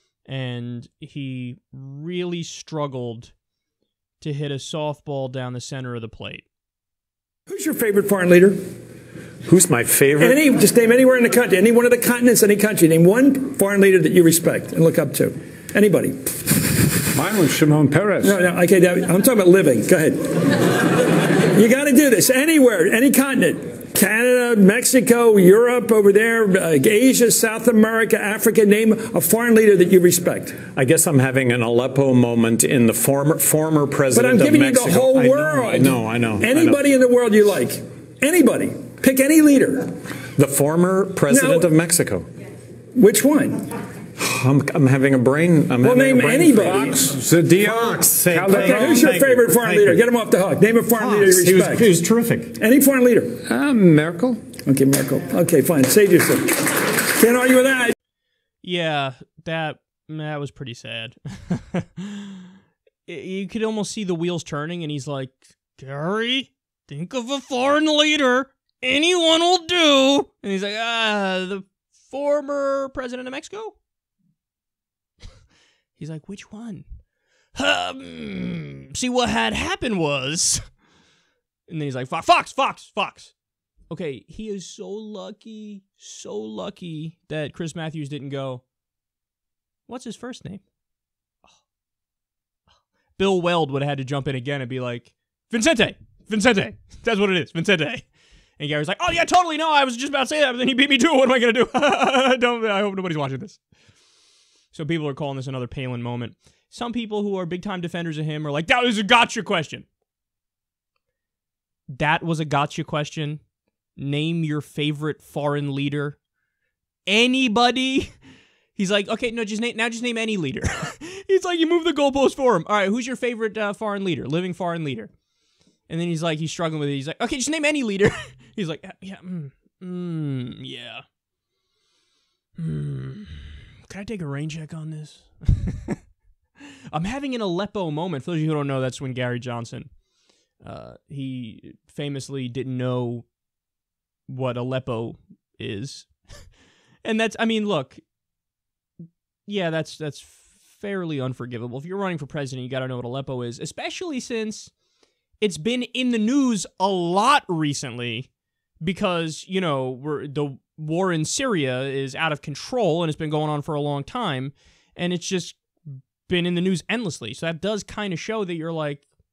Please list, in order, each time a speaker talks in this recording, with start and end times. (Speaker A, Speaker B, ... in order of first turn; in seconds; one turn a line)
Speaker A: 0.3-3.3
Speaker A: 4.2-6.5
Speaker B: 7.5-8.6
Speaker C: 9.4-10.4
Speaker B: 10.2-16.2
Speaker D: 17.1-18.3
Speaker B: 18.2-20.7
Speaker B: 21.2-30.6
Speaker C: 30.7-36.8
Speaker B: 34.1-39.9
Speaker C: 40.4-42.3
Speaker B: 41.3-41.7
Speaker B: 43.0-43.6
Speaker C: 44.2-50.0
Speaker B: 45.8-47.1
Speaker D: 47.1-47.8
Speaker B: 48.3-51.9
Speaker D: 48.4-49.0
Speaker C: 51.0-52.5
Speaker B: 52.6-53.5
Speaker C: 53.6-54.4
Speaker B: 54.5-56.5
Speaker B: 57.1-57.9
Speaker A: 58.6-62.5
Speaker A: 63.1-73.8
Speaker A: 76.0-76.8
Speaker A: 77.5-80.6
Speaker A: 81.7-83.3
Speaker A: 83.9-88.6
Speaker A: 89.9-90.6
Speaker A: 93.2-98.1
Speaker A: 98.6-103.6
Speaker A: 104.7-109.8
Speaker A: 111.9-113.4
Speaker A: 114.0-116.2
Speaker A: 117.1-118.1
Speaker A: 118.7-125.1
Speaker A: 125.9-131.0
Speaker A: 132.6-136.0
Speaker A: 136.9-139.9
Speaker A: 140.6-143.3
Speaker A: 144.3-146.5
Speaker A: 147.0-148.0
Speaker A: 149.5-154.7
Speaker A: 155.4-158.3
Speaker A: 158.8-169.0